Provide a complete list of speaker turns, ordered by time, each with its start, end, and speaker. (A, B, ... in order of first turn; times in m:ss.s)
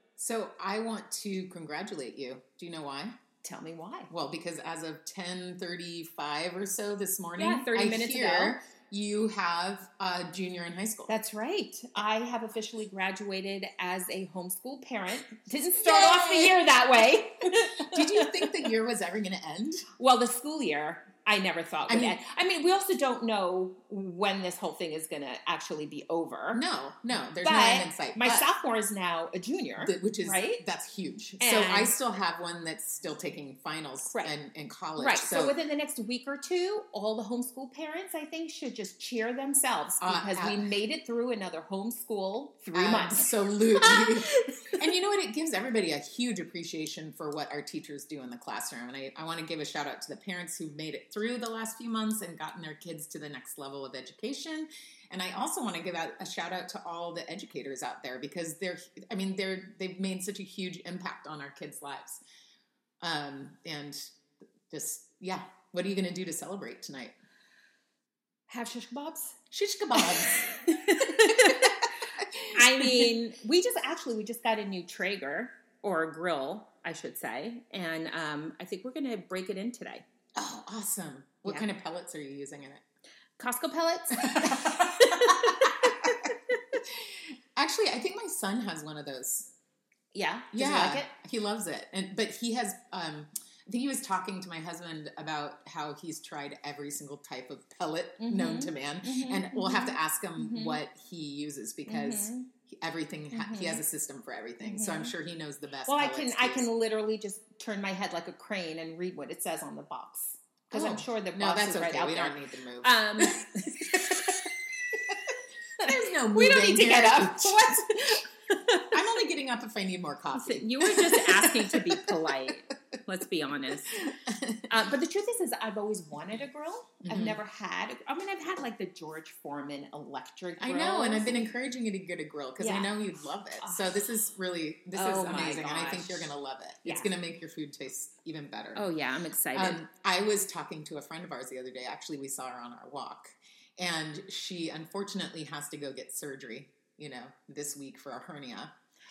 0:00.2-0:03.2 A
0:03.4-0:04.1 B
0:04.1-0:11.1 A
0:07.4-0:08.6 B
0:11.1-0:18.7 B
0:15.7-0:16.6 A
0:17.8-0:19.8 A
0:20.0-0:26.6 B
0:21.9-0:22.2 A
0:26.5-0:28.5 A
0:27.4-0:30.6 B
0:29.8-0:35.6 A
0:31.4-0:31.9 B
0:34.1-0:34.3 B
0:35.0-0:44.6 B
0:40.0-0:40.6 A
0:42.7-1:02.2 A
1:03.0-1:04.0 A
1:04.7-1:07.1 A
1:08.5-1:09.4 B
1:09.5-1:10.6 A
1:09.9-1:11.9 B
1:11.2-1:13.1 A
1:12.5-1:20.0 B
1:20.4-1:22.8 A
1:23.4-1:26.8 B
1:24.2-1:25.7 A
1:27.6-1:29.5 A
1:30.1-1:31.1 B
1:30.5-1:46.7 A
1:38.2-1:40.8 B
1:41.8-1:42.5 B
1:43.3-1:43.8 B
1:44.6-1:45.1 B
1:45.8-1:54.4 B
1:50.7-1:58.1 A
1:55.8-1:59.0 B
1:58.9-2:02.5 A
2:00.3-2:04.0 B
2:04.1-2:04.7 A
2:04.7-2:11.5 B
2:07.0-2:07.4 A
2:10.6-2:18.8 A
2:12.6-2:13.0 B
2:13.6-2:13.9 B
2:14.9-2:17.1 B
2:18.7-2:19.8 B
2:19.5-2:28.7 A